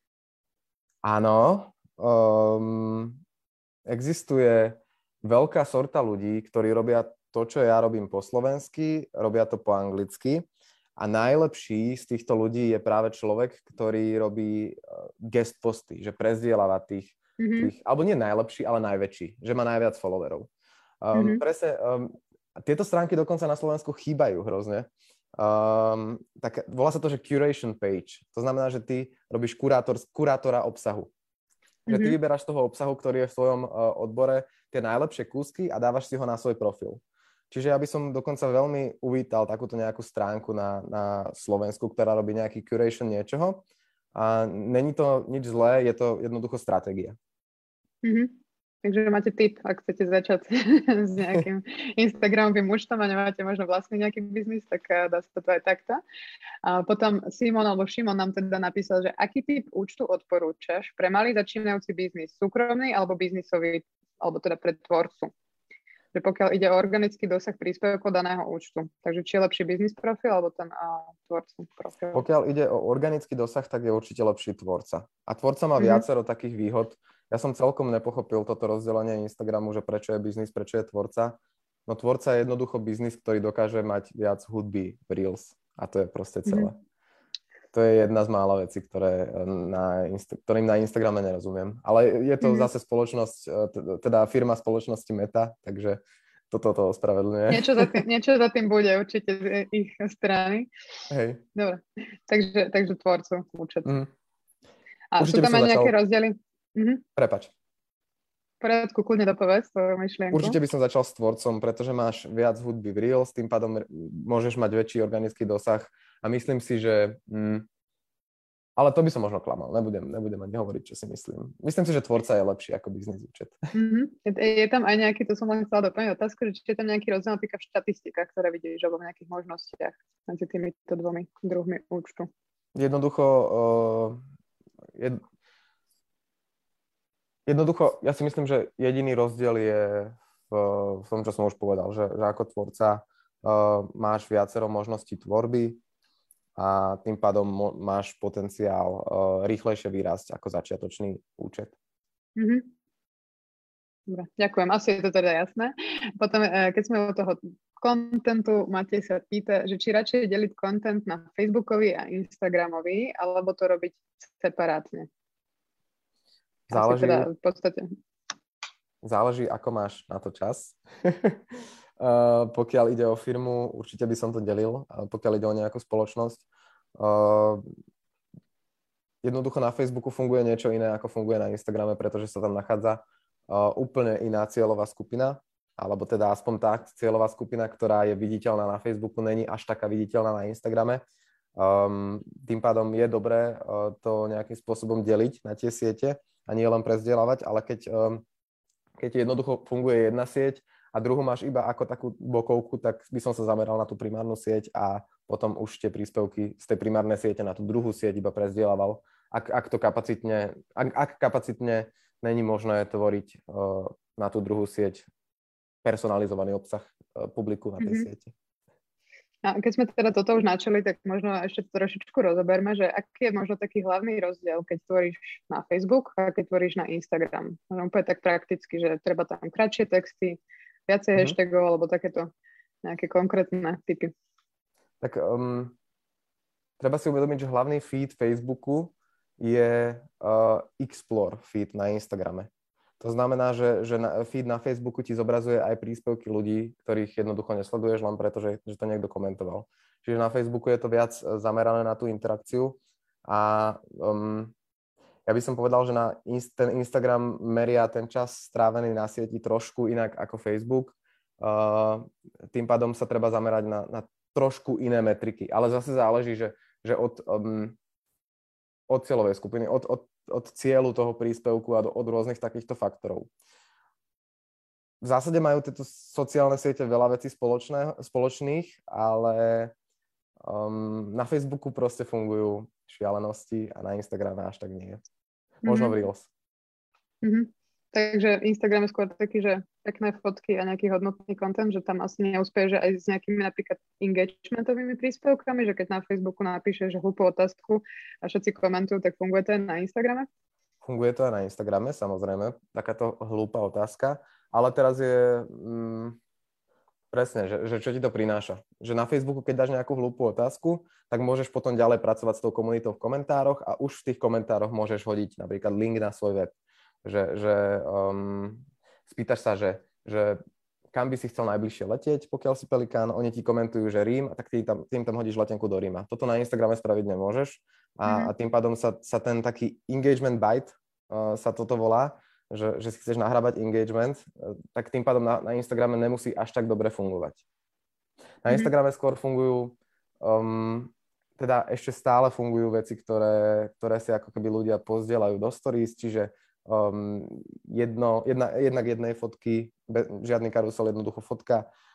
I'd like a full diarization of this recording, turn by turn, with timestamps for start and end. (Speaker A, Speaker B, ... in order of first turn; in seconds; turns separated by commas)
Speaker A: 1.0-3.2, Speaker A: 3.9-20.5, Speaker B: 17.4-17.7, Speaker A: 21.0-31.1, Speaker B: 21.1-21.4, Speaker A: 31.9-43.6, Speaker B: 31.9-32.2, Speaker A: 44.1-47.2, Speaker B: 48.0-56.0, Speaker B: 56.6-65.3, Speaker B: 66.1-72.2, Speaker A: 72.1-86.8, Speaker B: 75.8-76.0, Speaker B: 86.5-86.7, Speaker A: 87.7-98.0, Speaker B: 92.4-92.7, Speaker B: 97.5-100.7, Speaker A: 101.1-101.4, Speaker B: 101.5-103.9, Speaker A: 103.8-104.1, Speaker B: 105.1-107.0, Speaker A: 105.2-106.0, Speaker A: 107.2-107.5, Speaker B: 108.6-110.6, Speaker A: 110.3-117.7, Speaker A: 118.8-123.6, Speaker B: 123.7-132.3, Speaker A: 132.8-134.2, Speaker A: 134.9-135.2, Speaker A: 137.5-145.8, Speaker A: 146.6-151.7, Speaker B: 152.4-152.7, Speaker B: 154.1-165.1, Speaker A: 166.7-167.3, Speaker B: 166.7-167.9, Speaker A: 169.0-171.4, Speaker A: 172.0-176.4, Speaker A: 177.0-177.6, Speaker A: 179.2-191.0, Speaker A: 191.6-198.2, Speaker A: 199.0-215.1, Speaker A: 215.8-218.3, Speaker B: 217.8-218.1, Speaker B: 219.4-232.3, Speaker B: 232.8-234.1, Speaker A: 235.0-235.8, Speaker A: 236.8-254.5, Speaker A: 255.3-267.8, Speaker A: 268.9-273.3, Speaker A: 275.0-279.7, Speaker A: 280.4-285.0, Speaker B: 285.6-286.0, Speaker A: 285.6-286.3, Speaker B: 287.2-300.3, Speaker A: 300.8-306.2, Speaker A: 307.1-320.4, Speaker A: 320.9-337.4, Speaker B: 328.1-328.3, Speaker A: 338.4-351.7